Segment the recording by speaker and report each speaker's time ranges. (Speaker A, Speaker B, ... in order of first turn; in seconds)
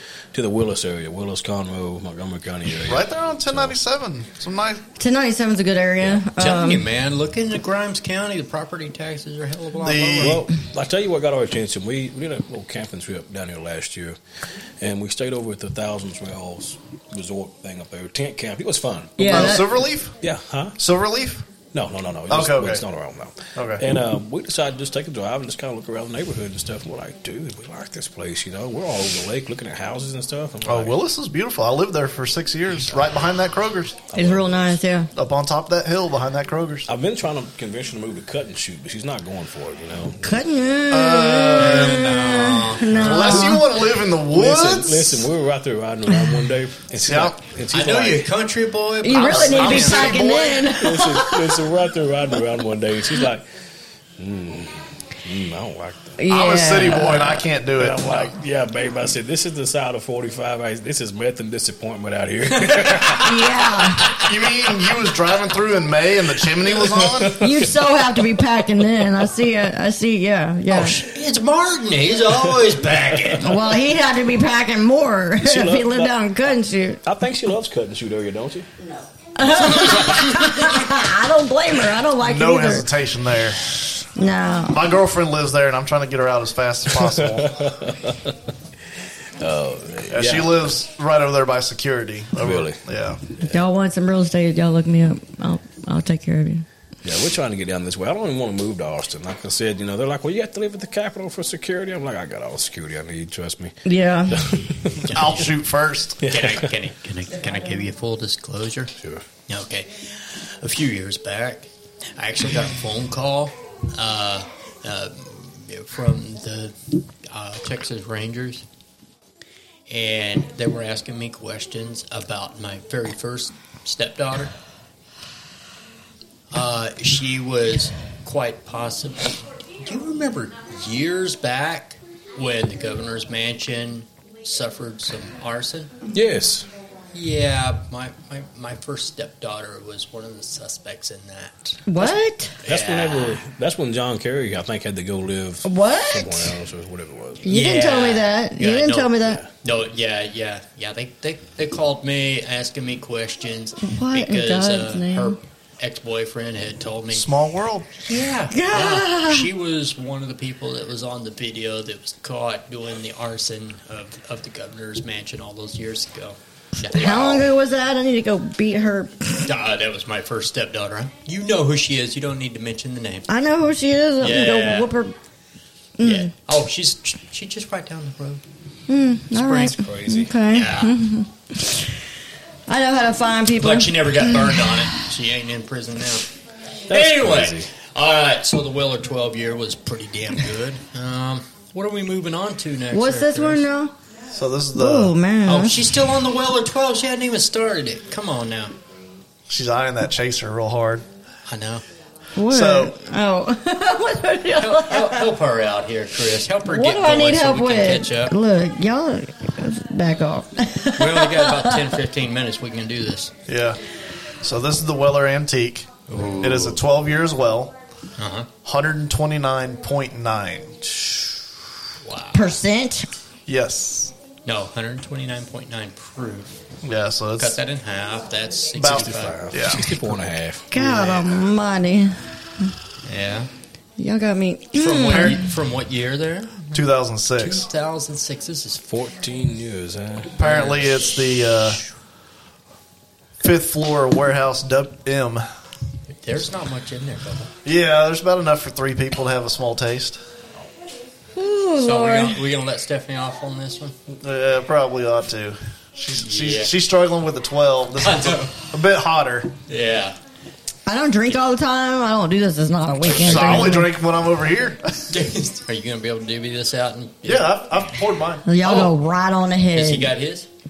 Speaker A: 0.3-3.7, 10.2-14.2, 14.8-19.6, 20.2-20.8, 21.7-30.9, 34.1-34.8, 36.9-40.4, 44.2-48.3, 50.7-53.5, 54.2-56.2, 57.8-63.6, 66.8-68.0, 72.3-73.5, 75.4-76.2, 77.0-78.7, 87.0-88.3, 89.4-90.6, 92.4-92.8, 97.0-103.8, 104.3-105.1, 106.2-106.7, 109.0-109.2, 136.1-136.7, 142.6-147.4, 149.2-149.5, 179.7-180.3, 186.9-187.7, 220.9-221.2, 228.8-231.4, 238.8-240.3
Speaker B: 2.9-4.8, 9.8-10.4, 19.2-20.1, 20.8-21.5, 22.3-22.8, 23.5-23.9, 30.6-34.0, 35.1-36.9, 40.9-42.2, 42.9-45.3, 46.9-47.4, 49.3-50.8, 56.3-58.3, 64.2-67.3, 82.2-83.6, 84.7-87.5, 90.1-93.2, 105.1-106.2, 157.1-157.9, 194.3-195.2, 199.5-201.0, 202.5-202.9, 213.5-213.8, 214.4-215.9, 216.4-217.7, 218.6-220.8, 223.5-224.1, 226.8-227.6, 228.8-230.0, 236.7-237.7, 240.4-241.8, 243.4-245.4, 247.7-250.2, 254.1-259.5, 263.0-265.1, 267.2-268.5
Speaker C: 5.0-6.9, 19.2-19.7, 34.1-35.1, 40.2-43.7, 49.0-51.5, 56.2-57.4, 63.2-64.2, 67.4-71.0, 73.4-77.0, 79.3-82.9, 84.2-84.8, 93.5-96.7, 103.8-104.6, 141.9-142.6, 145.6-146.5, 147.4-149.4, 153.8-155.4, 158.5-159.5, 166.9-169.5, 173.3-175.1, 176.0-176.3, 178.9-181.9, 182.7-184.6, 192.9-193.9, 194.7-195.8, 202.3-205.3, 206.7-211.9, 222.3-223.1, 230.7-232.7, 234.0-235.5, 251.3-252.4, 260.9-263.9, 268.5-270.1
Speaker D: 6.4-10.4, 41.5-43.6, 47.7-50.2, 62.5-63.3, 70.7-73.6, 79.5-80.7, 105.0-105.5, 106.2-108.9, 109.5-118.7, 119.9-124.5, 126.5-135.9, 137.1-141.8, 142.7-143.4, 147.4-157.3, 158.0-167.5, 169.4-173.3, 174.2-174.9, 176.0-178.4, 179.3-179.8, 180.5-180.9, 183.6-186.3, 186.9-193.6, 195.5-198.8, 201.5-201.8, 204.6-208.3, 211.0-213.3, 216.1-216.8, 218.2-218.5, 222.0-222.6, 224.4-226.6, 227.4-230.1, 233.1-233.5, 234.8-236.8, 237.4-238.8, 240.4-241.0, 246.2-247.5, 251.8-253.9, 256.2-256.7, 258.0-258.6, 259.7-260.2, 265.1-267.5, 268.6-268.9, 269.8-270.5